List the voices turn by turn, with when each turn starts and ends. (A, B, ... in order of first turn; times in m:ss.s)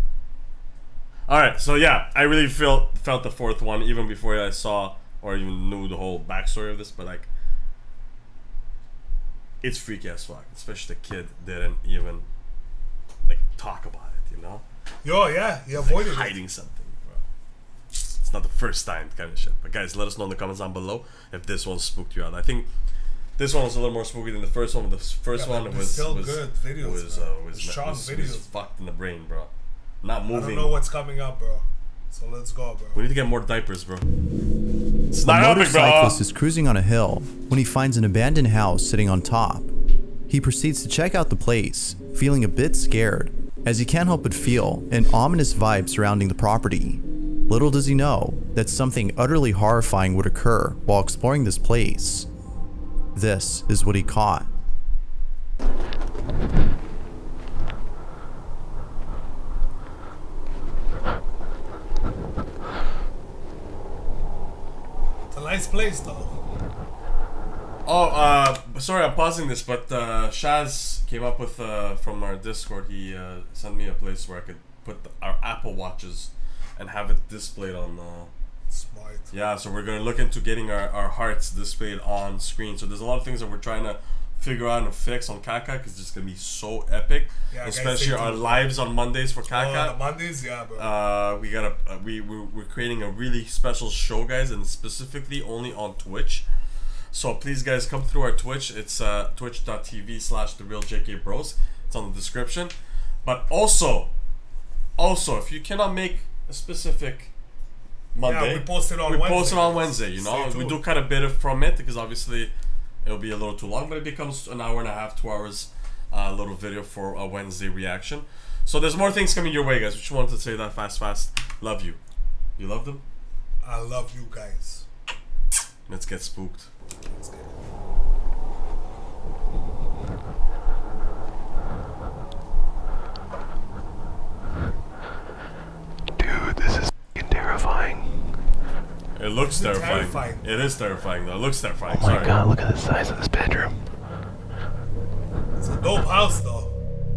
0:01.3-0:07.3 A
0:09.6-0:12.3 A
0:13.3-0:14.6 A
0:15.0-0:16.4 B
0:15.7-0:17.3 A
0:18.2-0:22.7 A
0:23.4-0:29.5 A
0:25.3-0:28.5 B
0:30.0-0:30.8 A
0:30.3-0:33.0 B
0:32.9-0:34.1 A
0:35.1-0:36.2 A
0:35.3-0:39.7 C
0:40.3-0:52.3 C
0:53.2-0:54.5 C
1:05.3-1:06.3 B
1:07.9-1:18.3 A
1:18.7-1:19.3 B
1:19.3-1:30.0 A
1:27.5-1:28.7 B
1:29.5-1:30.9 B
1:30.8-1:36.4 A
1:37.1-1:42.7 A
1:43.2-1:44.1 A
1:45.0-1:47.3 A
1:48.2-1:52.5 A
1:48.2-1:50.8 B
1:53.0-2:02.0 A
2:02.6-2:03.0 A
2:03.6-2:04.8 B
2:05.9-2:06.7 A
2:07.1-2:07.5 B
2:16.2-2:18.3 D
2:19.2-2:22.4 A
2:19.4-2:20.4 B
2:21.9-2:23.7 D
2:25.6-2:26.7 B